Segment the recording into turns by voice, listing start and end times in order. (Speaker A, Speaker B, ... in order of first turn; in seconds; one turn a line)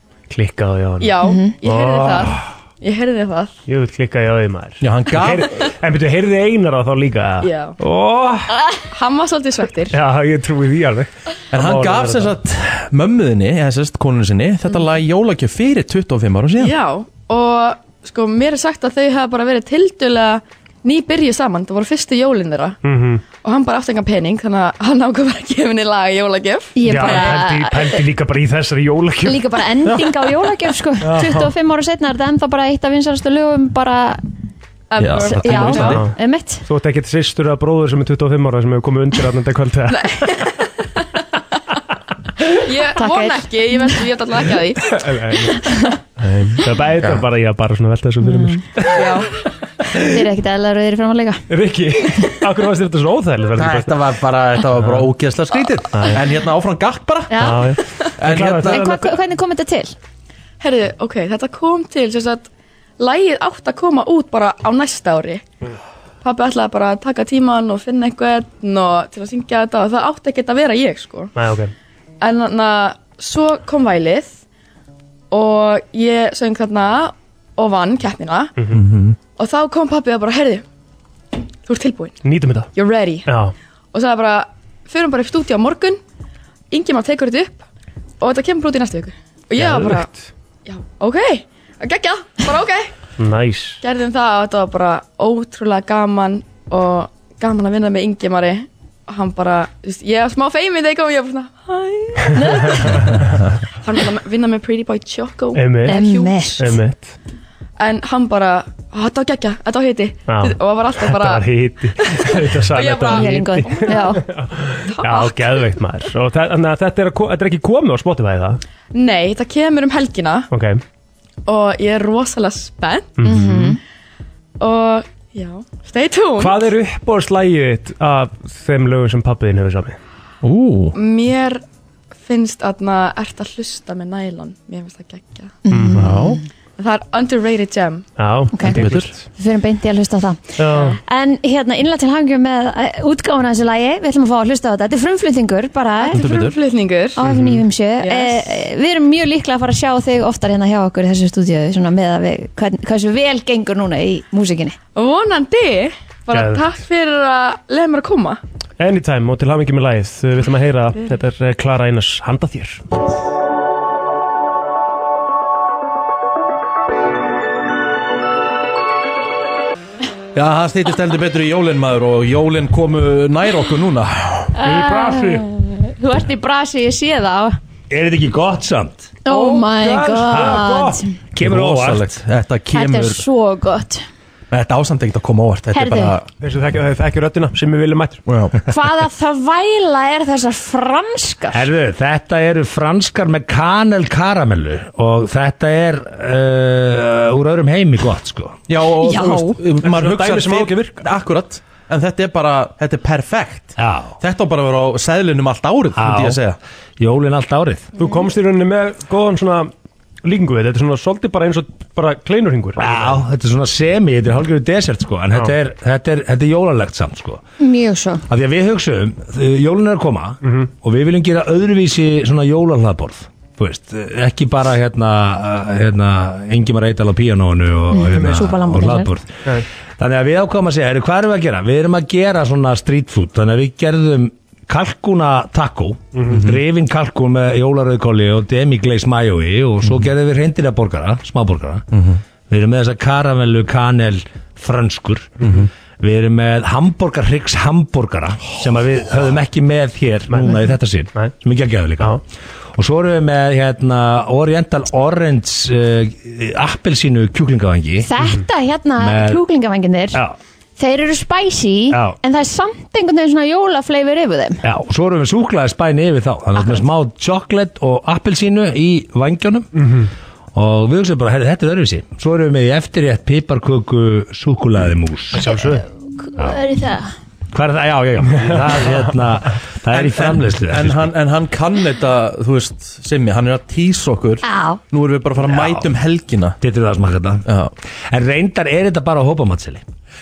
Speaker A: 0.3-2.5
Speaker B: 1.0-3.6
Speaker C: 1.2-1.6
Speaker A: 3.7-8.6
Speaker D: 4.8-5.5
Speaker B: 7.4-7.8
Speaker B: 8.9-10.0
Speaker A: 9.9-12.3
Speaker D: 11.5-16.8
Speaker B: 16.6-22.8
Speaker A: 22.8-23.2
Speaker B: 23.4-27.3
Speaker C: 26.8-28.0
Speaker A: 26.9-30.1
Speaker C: 29.2-34.2
Speaker A: 31.0-31.5
Speaker B: 34.9-36.0
Speaker D: 35.0-36.0
Speaker C: 35.2-36.6
Speaker A: 35.7-36.1
Speaker A: 36.6-40.4
Speaker B: 39.9-41.0
Speaker B: 42.5-45.0
Speaker C: 43.0-43.9
Speaker A: 44.9-49.2
Speaker C: 48.2-48.6
Speaker B: 48.9-49.3
Speaker C: 49.9-51.4
Speaker A: 51.5-54.0
Speaker D: 53.6-57.6
Speaker A: 54.8-55.1
Speaker A: 55.9-56.2
Speaker C: 57.3-57.7
Speaker A: 57.4-59.1
Speaker D: 58.2-58.9
Speaker C: 58.4-60.0
Speaker B: 60.6-65.5
Speaker B: 66.2-71.3
Speaker A: 71.4-71.7
Speaker B: 72.2-74.4
Speaker B: 75.3-78.5
Speaker D: 78.7-79.2
Speaker B: 79.4-80.7
Speaker B: 81.7-82.2
Speaker A: 82.2-82.7
Speaker B: 82.8-83.3
Speaker A: 83.3-83.5
Speaker B: 83.9-86.0
Speaker B: 86.7-87.6
Speaker B: 88.2-90.1
Speaker A: 89.5-90.3
Speaker B: 90.7-92.9
Speaker A: 93.2-93.8
Speaker B: 93.8-103.2
Speaker C: 102.3-102.8
Speaker A: 102.7-103.1
Speaker B: 103.8-106.6
Speaker A: 105.5-106.0
Speaker C: 105.9-106.7
Speaker A: 106.6-107.1
Speaker B: 107.8-114.2
Speaker A: 110.3-118.6
Speaker C: 113.1-114.2
Speaker B: 114.9-115.7
Speaker B: 118.9-120.5
Speaker A: 120.5-120.8
Speaker B: 121.5-123.2
Speaker A: 123.2-123.7
Speaker C: 123.2-123.8
Speaker B: 124.6-126.7
Speaker A: 126.4-130.0
Speaker D: 130.4-131.0
Speaker B: 130.9-131.6
Speaker B: 132.2-135.6
Speaker C: 135.7-136.4
Speaker A: 135.7-136.2
Speaker D: 136.0-136.4
Speaker B: 136.8-138.1
Speaker A: 138.2-139.2
Speaker C: 138.5-146.3
Speaker D: 138.7-139.1
Speaker A: 140.6-141.0
Speaker B: 146.0-147.2
Speaker D: 146.1-146.6
Speaker C: 147.2-154.8
Speaker A: 147.2-147.6
Speaker B: 148.0-148.4
Speaker B: 155.0-158.4
Speaker A: 156.3-156.7
Speaker A: 158.8-162.8
Speaker D: 170.3-174.6
Speaker C: 174.6-177.6
Speaker E: 177.9-179.2
Speaker C: 179.2-181.1
Speaker A: 179.3-181.4
Speaker D: 181.4-183.2
Speaker E: 181.4-181.7
Speaker C: 182.7-184.0
Speaker D: 184.5-186.3
Speaker C: 185.7-186.2
Speaker A: 186.4-188.2
Speaker D: 188.3-188.6
Speaker C: 188.7-191.7
Speaker E: 191.5-198.6
Speaker D: 198.7-206.6
Speaker C: 199.0-199.6
Speaker A: 199.8-201.0
Speaker E: 203.8-204.2
Speaker E: 205.9-206.4
Speaker E: 207.0-207.9
Speaker A: 208.0-209.7
Speaker A: 210.2-213.2
Speaker E: 212.8-217.4
Speaker C: 217.6-218.2
Speaker E: 218.3-241.9
Speaker A: 220.4-220.7
Speaker C: 227.9-229.1
Speaker A: 236.2-236.4
Speaker D: 236.3-236.6
Speaker D: 241.9-242.2
Speaker E: 242.5-245.4
Speaker D: 245.4-245.7
Speaker E: 246.0-252.2
Speaker A: 250.3-251.3
Speaker E: 252.8-258.1
Speaker C: 258.0-260.2
Speaker E: 259.0-259.4
Speaker C: 260.8-264.6
Speaker E: 261.9-262.2
Speaker E: 264.6-269.7
Speaker C: 266.6-266.9
Speaker A: 269.8-270.1
Speaker E: 270.6-275.4
Speaker A: 275.3-275.9
Speaker C: 275.4-277.1
Speaker E: 277.5-281.1
Speaker D: 279.9-286.6
Speaker C: 284.4-284.8
Speaker E: 285.5-285.8
Speaker E: 286.6-287.5
Speaker D: 287.4-287.7
Speaker E: 288.1-289.8